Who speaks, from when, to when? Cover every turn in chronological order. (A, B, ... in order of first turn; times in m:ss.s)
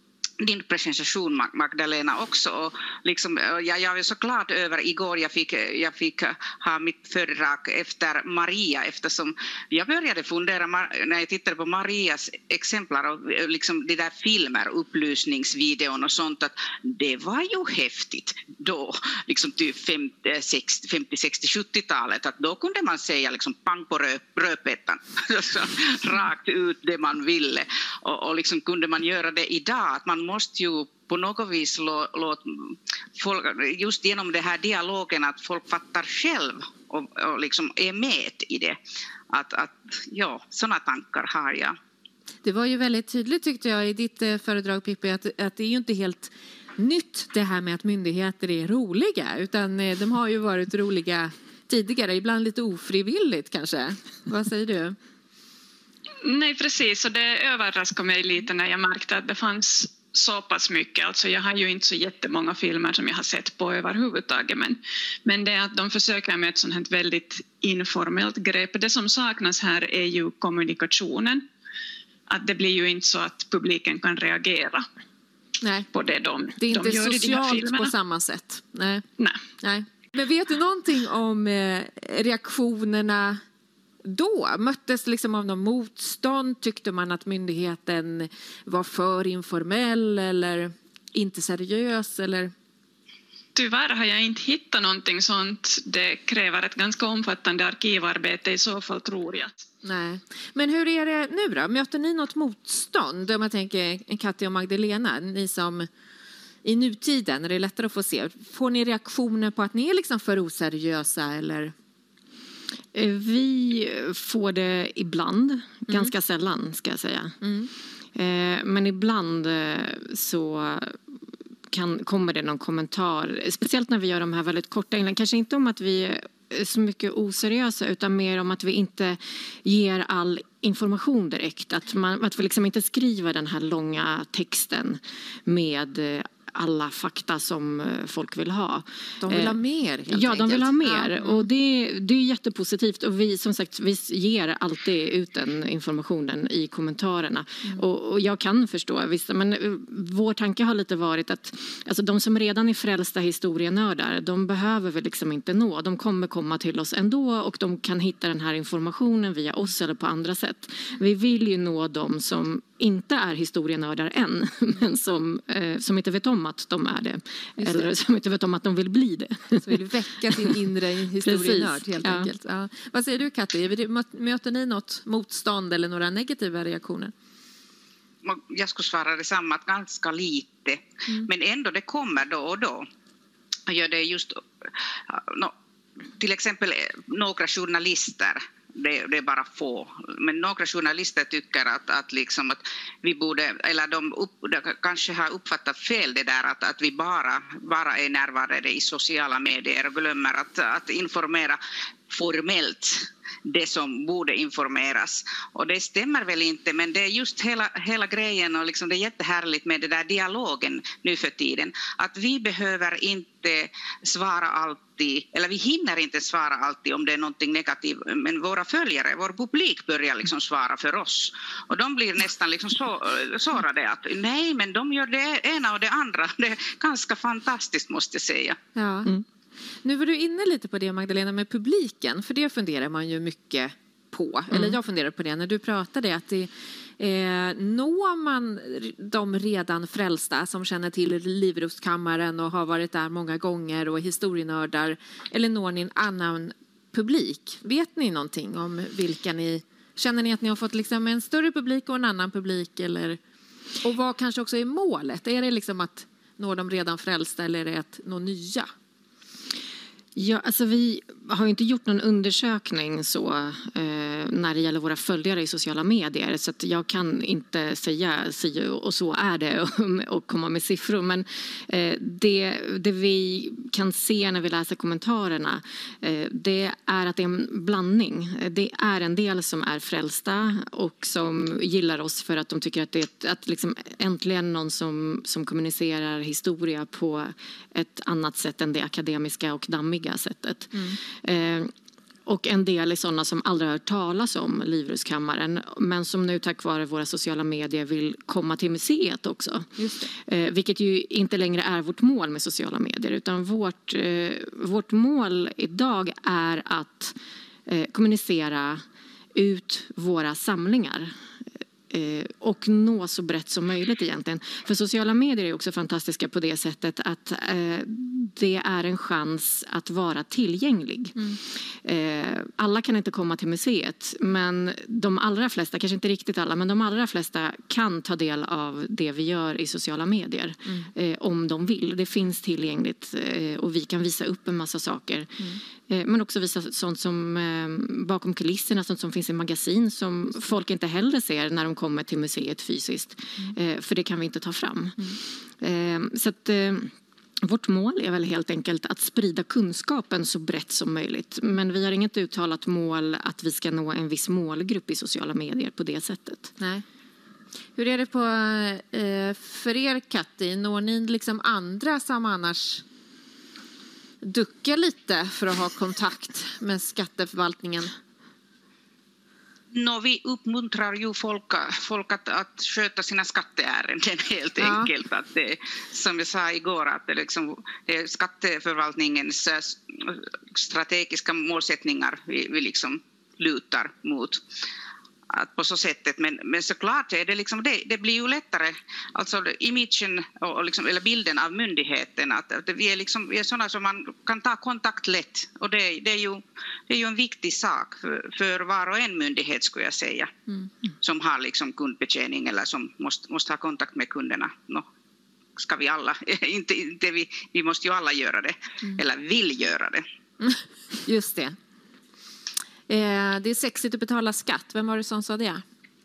0:00.4-0:38.8 A
0:39.3-0:41.8 A
0:42.4-0:55.0 B
0:56.2-1:11.4 C
1:12.3-1:14.8 C
1:15.6-1:15.9 B
1:15.9-1:17.9 C
1:16.6-1:19.0 B
1:19.2-1:19.4 C
1:19.6-1:23.4 B
1:24.0-1:32.5 B
1:33.6-1:39.6 C
1:39.8-1:45.9 B
1:46.6-1:51.7 B
1:52.9-1:57.4 D
1:57.4-1:57.7 B
1:58.1-2:01.0 D
2:01.7-2:19.6 D
2:19.2-2:21.4 B
2:20.1-2:50.6 D
2:47.6-2:47.9 B
2:49.6-2:57.1 B
2:51.2-2:52.3 D
2:58.2-3:02.8 A
3:03.7-3:04.4 A
3:05.1-3:05.5 A
3:06.2-3:21.6 A
3:22.1-3:48.6 A
3:48.8-3:49.1 B
3:49.8-4:13.2 B
3:54.5-3:54.8 D
4:13.8-4:18.7 B
4:20.1-4:51.7 D
4:52.3-5:07.1 D
4:59.8-5:00.1 B
5:07.7-5:08.8 D
5:09.3-5:11.1 D
5:11.9-5:56.5 D
5:56.6-5:56.8 B
5:57.8-6:02.8 B
6:04.2-6:07.9 B
6:09.7-6:24.4 A
6:14.6-6:14.9 B
6:25.3-6:40.3 A
6:41.0-6:44.8 A
6:45.6-6:50.0 A
6:50.4-6:51.6 B
6:52.9-6:55.6 B